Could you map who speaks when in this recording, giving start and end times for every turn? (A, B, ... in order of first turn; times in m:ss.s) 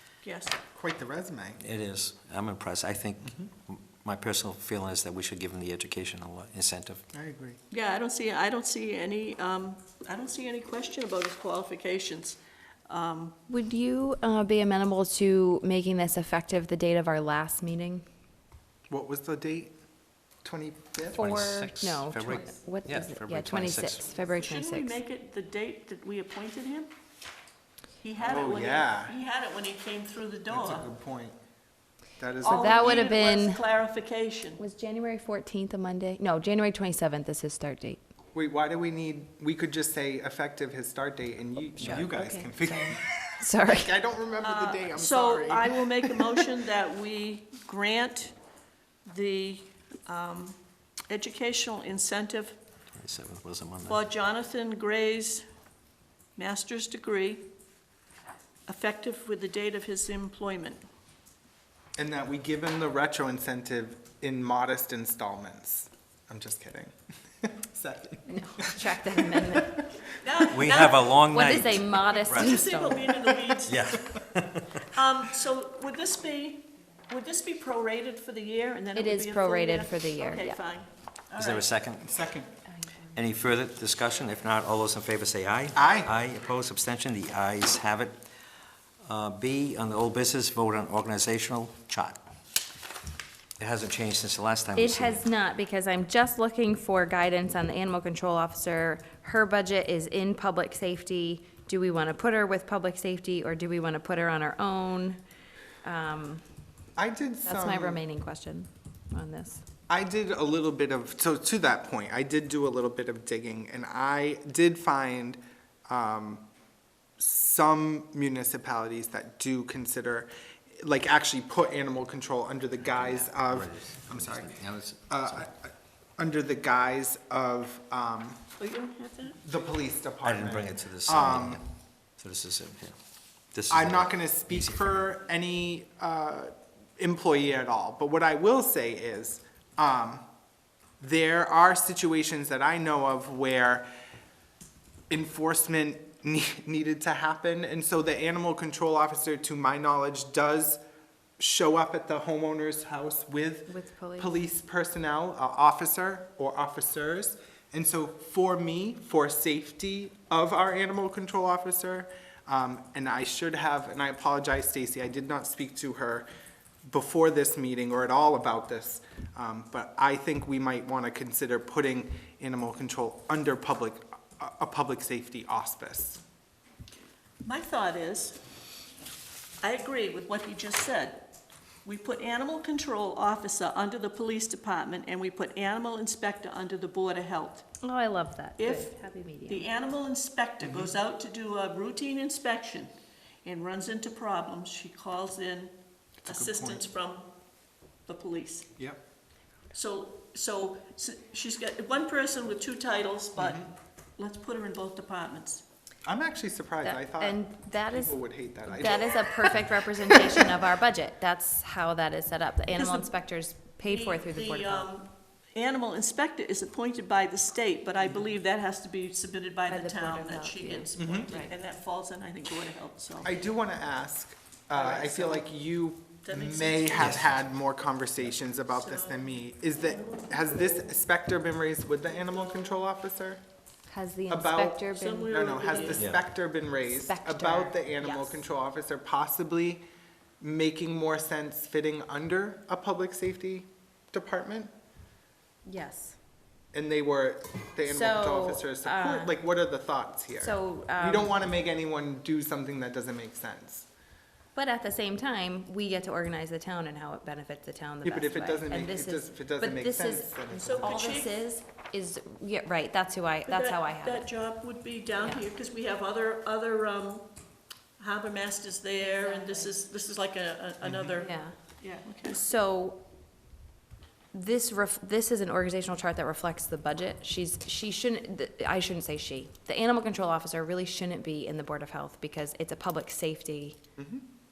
0:00.2-0:00.6 A
0:00.7-0:01.6 B
0:01.6-0:07.0 C
0:07.1-0:07.6 B
0:07.7-0:13.3 A
0:13.5-0:18.0 D
0:18.9-0:19.7 B
0:20.4-0:21.2 B
0:21.1-0:25.0 D
0:21.2-0:24.0 C
0:24.3-0:26.9 A
0:28.0-0:30.8 A
0:28.2-0:29.2 B
0:30.5-0:31.4 B
0:32.2-0:33.1 B
0:32.4-0:34.6 A
0:32.5-0:33.6 D
0:34.6-0:38.0 D
0:38.3-0:46.5 B
0:41.8-0:43.9 D
0:44.4-0:48.3 A
0:49.0-0:50.6 A
0:51.1-0:52.6 A
0:53.0-0:54.0 C
0:53.9-0:55.4 A
0:56.4-0:57.4 A
0:58.7-1:00.8 A
1:02.0-1:09.8 B
1:08.2-1:09.8 D
1:10.2-1:11.2 A
1:10.5-1:12.6 C
1:11.3-1:13.1 D
1:12.0-1:13.9 A
1:13.6-1:14.7 C
1:14.9-1:21.7 A
1:18.9-1:20.6 D
1:21.4-1:22.1 C
1:22.0-1:22.5 B
1:23.1-1:28.2 C
1:25.7-1:26.1 B
1:29.0-1:32.2 C
1:33.6-1:35.2 C
1:34.7-1:45.2 D
1:45.8-1:46.4 D
1:47.0-1:48.0 B
1:47.4-1:49.6 D
1:49.9-1:56.4 B
1:57.2-2:00.3 B
2:00.8-2:04.5 B
2:02.8-2:05.4 C
2:05.1-2:08.4 B
2:08.6-2:09.6 A
2:09.4-2:11.6 B
2:10.2-2:11.6 C
2:12.2-2:12.9 C
2:13.5-2:15.0 C
2:13.7-2:20.2 B
2:21.0-2:23.8 B
2:25.1-2:30.8 B
2:31.4-2:46.3 B
2:33.7-2:34.4 D
2:46.8-2:56.2 B
2:57.4-2:58.4 A
2:59.6-3:01.3 A
3:01.8-3:07.7 A
3:07.8-3:09.7 D
3:08.6-3:12.9 A
3:10.6-3:11.0 B
3:13.4-3:15.7 A
3:16.2-3:16.8 B
3:16.2-3:17.3 A
3:18.0-3:18.7 A
3:19.7-3:23.6 A
3:23.4-3:23.7 B
3:24.2-3:25.6 A
3:26.0-3:30.5 B
3:26.8-3:34.9 D
3:32.8-3:33.1 A
3:33.8-3:43.3 A
3:39.7-3:41.5 D
3:41.0-3:41.3 B
3:43.2-3:53.4 B
3:44.7-3:45.5 A
3:46.2-3:47.2 A
3:47.0-3:47.3 C
3:48.6-3:50.9 A
3:53.9-3:56.0 D
3:54.3-3:59.8 B
3:54.9-3:56.1 A
3:56.0-3:56.2 C
3:56.8-3:58.4 D
4:00.4-4:04.7 B
4:05.6-4:06.2 D
4:06.7-4:13.9 B
4:07.8-4:09.4 D
4:10.4-4:11.4 D
4:14.5-4:24.3 D
4:18.0-4:21.1 B
4:20.6-4:21.4 A
4:23.5-4:27.3 A
4:28.0-4:32.4 A
4:29.0-4:29.8 D
4:30.8-4:31.2 B
4:31.2-4:31.5 D
4:32.2-4:33.0 D
4:34.3-4:43.8 D
4:44.0-4:44.2 B